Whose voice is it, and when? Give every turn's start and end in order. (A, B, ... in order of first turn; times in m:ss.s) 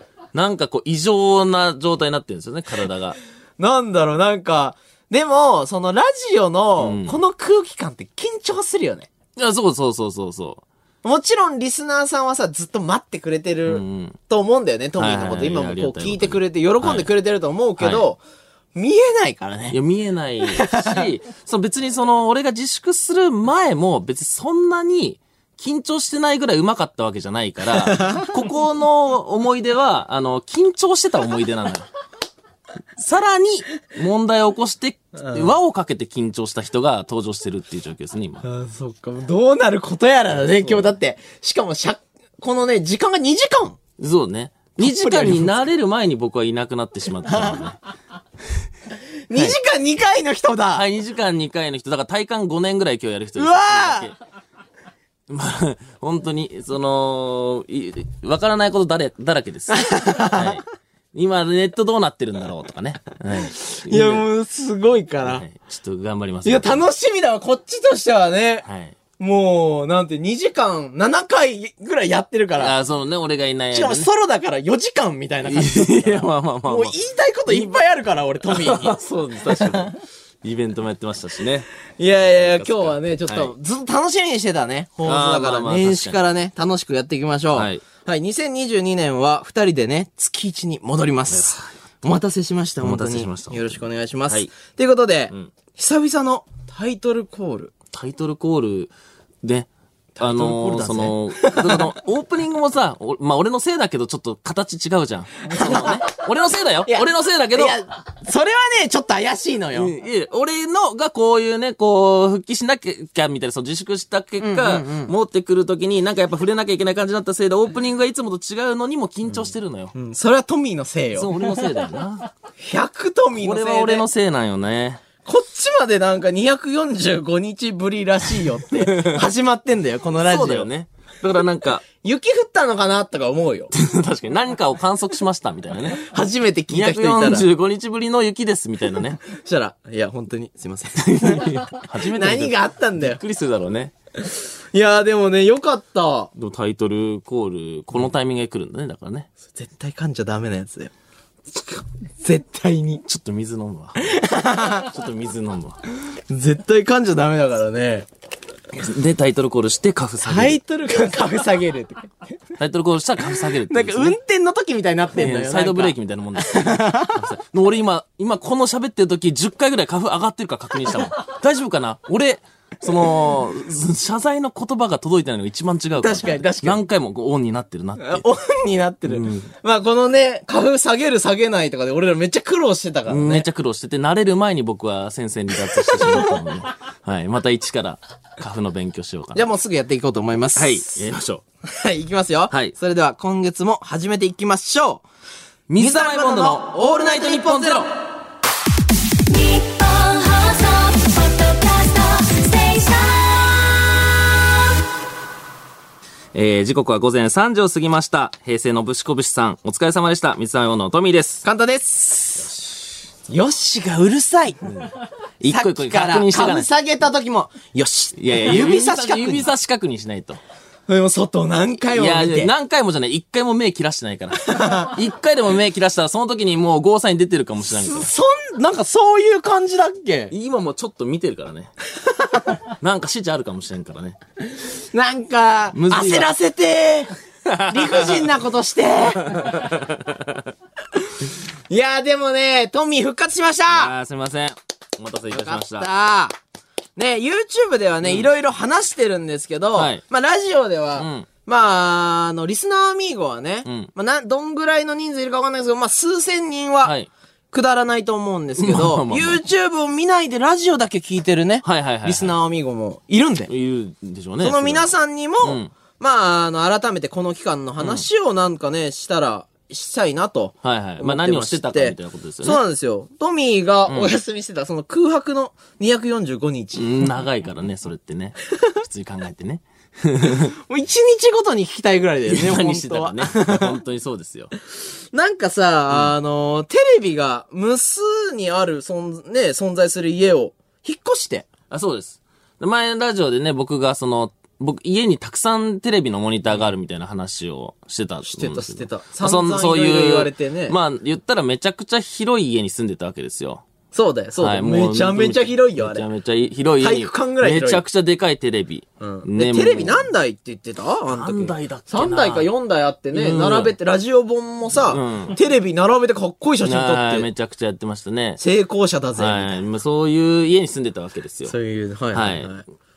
0:00.3-0:03.2 A
0:03.6-0:09.1 B
0:06.8-0:07.2 A
0:09.4-0:10.6 A
0:11.0-0:18.2 B
0:13.7-0:14.2 A
0:15.0-0:17.1 A
0:17.8-0:18.1 A
0:18.7-0:19.8 B
0:19.7-0:31.9 A
0:20.5-0:21.0 B
0:27.8-0:28.3 B
0:33.0-0:38.4 A
0:35.2-0:35.5 B
0:38.4-0:43.8 B
0:40.3-0:40.9 A
0:44.0-0:47.8 A
0:44.8-0:45.6 B
0:47.3-0:47.6 B
0:49.3-0:50.8 B
0:50.7-0:54.1 A
0:53.4-0:54.1 B
0:55.3-1:04.2 A
0:59.7-1:00.6 B
1:03.6-1:05.4 B
1:05.2-1:06.8 A
1:06.4-1:08.6 B
1:08.6-1:09.0 A
1:09.2-1:12.7 B
1:12.6-1:14.1 A
1:13.7-1:19.0 B
1:15.4-1:17.0 A
1:17.5-1:17.7 A
1:18.4-1:21.7 A
1:19.5-1:19.9 B
1:22.0-1:37.7 B
1:22.2-1:23.5 A
1:25.0-1:26.2 A
1:27.5-1:27.8 A
1:31.3-1:31.7 A
1:32.8-1:34.5 A
1:37.9-1:38.9 A
1:39.4-1:39.7 A
1:40.2-1:41.9 B
1:40.2-1:47.8 A
1:45.4-1:46.1 B
1:46.9-1:49.9 B
1:49.7-1:59.9 A
1:54.4-1:55.1 B
1:59.9-2:01.3 B
2:01.1-2:02.3 A
2:02.6-2:04.1 B
2:03.3-2:05.0 A
2:05.2-2:10.7 B
2:08.7-2:09.2 A
2:10.2-2:11.8 A
2:12.0-2:13.7 B
2:13.7-2:16.0 A
2:15.9-2:17.5 B
2:16.7-2:19.2 A
2:19.2-2:23.2 B
2:21.0-2:23.9 A
2:24.2-2:26.3 B
2:26.4-2:29.3 A
2:29.5-2:30.9 B
2:32.2-2:33.0 B
2:33.0-2:35.8 A
2:34.0-2:34.9 B
2:36.3-2:38.1 B
2:38.7-2:40.6 A
2:40.2-2:42.1 B
2:42.6-2:44.2 A
2:43.6-2:47.2 B
2:45.1-2:58.2 A
2:56.0-2:56.8 B
2:58.0-3:03.5 B
2:59.1-2:59.5 A
3:03.1-3:09.5 A
3:05.8-3:06.3 B
3:09.3-3:11.0 B
3:10.5-3:11.4 A
3:11.7-3:15.0 B
3:15.7-3:17.9 A
3:15.8-3:17.9 B
3:19.3-3:23.9 C
3:26.3-3:31.4 A
3:31.4-3:32.5 B
3:33.3-3:34.6 B
3:35.4-3:36.7 A
3:35.4-3:39.5 B
3:38.2-3:40.4 A
3:40.9-3:42.5 B
3:41.9-3:48.1 A
3:44.4-3:44.9 B
3:47.6-3:50.3 B
3:50.3-3:51.7 A
3:52.2-3:52.5 B
3:52.6-3:54.2 A
3:54.6-3:57.1 B
3:55.7-3:56.3 A
3:57.4-3:58.3 A
3:57.7-3:59.6 B
3:59.5-4:00.4 A
4:01.2-4:03.9 B
4:03.7-4:05.9 A
4:05.3-4:06.3 B
4:07.0-4:16.9 B
4:08.0-4:08.3 A
4:09.7-4:10.0 A
4:11.0-4:11.3 A
4:13.6-4:13.9 A
4:16.8-4:17.1 A
4:17.5-4:23.5 B
4:18.6-4:19.4 A
4:21.6-4:22.4 A
4:23.5-4:24.9 A
4:24.4-4:36.9 B
4:25.4-4:25.7 A
4:27.8-4:28.1 A
4:30.6-4:32.6 A
4:33.9-4:34.1 A
4:36.7-4:40.5 A
4:40.4-4:43.7 B
4:42.3-4:44.5 A
4:45.1-4:51.5 B
4:51.7-5:03.6 A
4:58.2-5:00.8 B
5:03.9-5:06.0 B
5:04.4-5:10.1 A
5:06.8-5:07.8 B
5:09.0-5:17.3 B
5:11.1-5:12.5 A
5:13.1-5:13.8 A
5:14.9-5:15.4 A
5:16.6-5:18.4 A
5:18.4-5:19.6 B
5:19.2-5:21.5 A
5:21.5-5:22.6 B
5:22.1-5:22.5 A